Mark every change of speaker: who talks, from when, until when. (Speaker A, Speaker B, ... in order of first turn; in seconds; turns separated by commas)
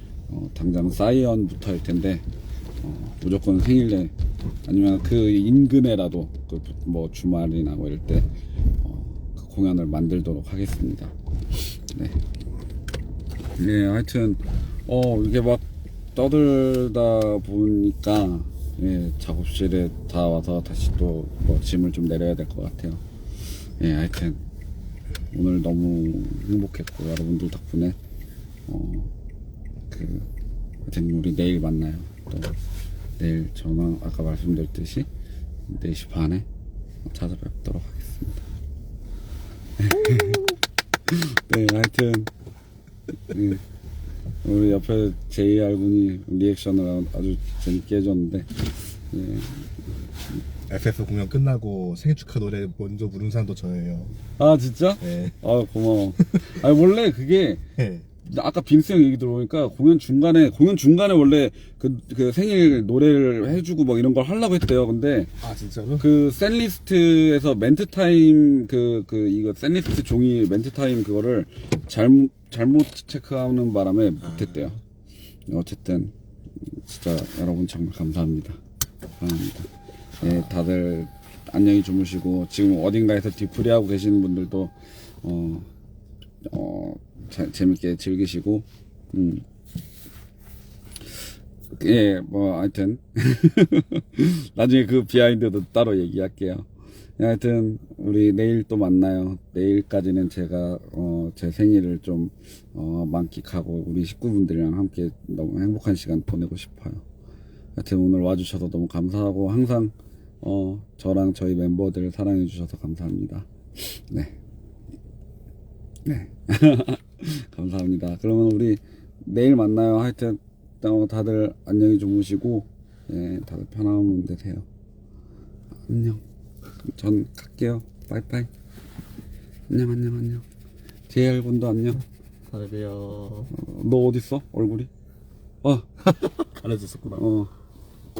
Speaker A: 0.3-2.2, Speaker A: 2.8-4.1, Speaker A: 4.6-8.3, Speaker A: 8.8-11.1, Speaker A: 11.9-12.2, Speaker A: 13.6-15.6, Speaker A: 16.1-23.0, Speaker A: 23.8-24.4, Speaker A: 25.3-27.9, Speaker A: 28.7-29.1, Speaker A: 29.9-30.3, Speaker A: 30.9-32.5, Speaker A: 33.2-35.1, Speaker A: 35.7-36.5, Speaker A: 37.1-38.4, Speaker A: 39.8-40.6, Speaker A: 41.1-42.3, Speaker A: 43.3-43.6, Speaker A: 44.4-49.7, Speaker B: 50.7-54.1, Speaker A: 54.4-57.6, Speaker B: 55.0-55.4, Speaker B: 57.8-58.1, Speaker A: 58.2-65.3, Speaker B: 65.4-66.1, Speaker A: 66.0-74.8, Speaker B: 74.2-74.7, Speaker A: 75.5-76.1, Speaker A: 76.7-78.6, Speaker A: 79.2-79.7, Speaker A: 80.2-85.7, Speaker A: 86.4-89.4, Speaker A: 91.7-107.0, Speaker A: 107.8-114.3, Speaker A: 116.0-124.7, Speaker A: 125.9-126.2, Speaker A: 126.9-128.5, Speaker A: 129.7-130.4, Speaker A: 131.1-132.0, Speaker B: 132.5-133.5, Speaker A: 133.5-134.9, Speaker A: 135.6-135.9, Speaker B: 136.1-137.2, Speaker A: 137.1-137.5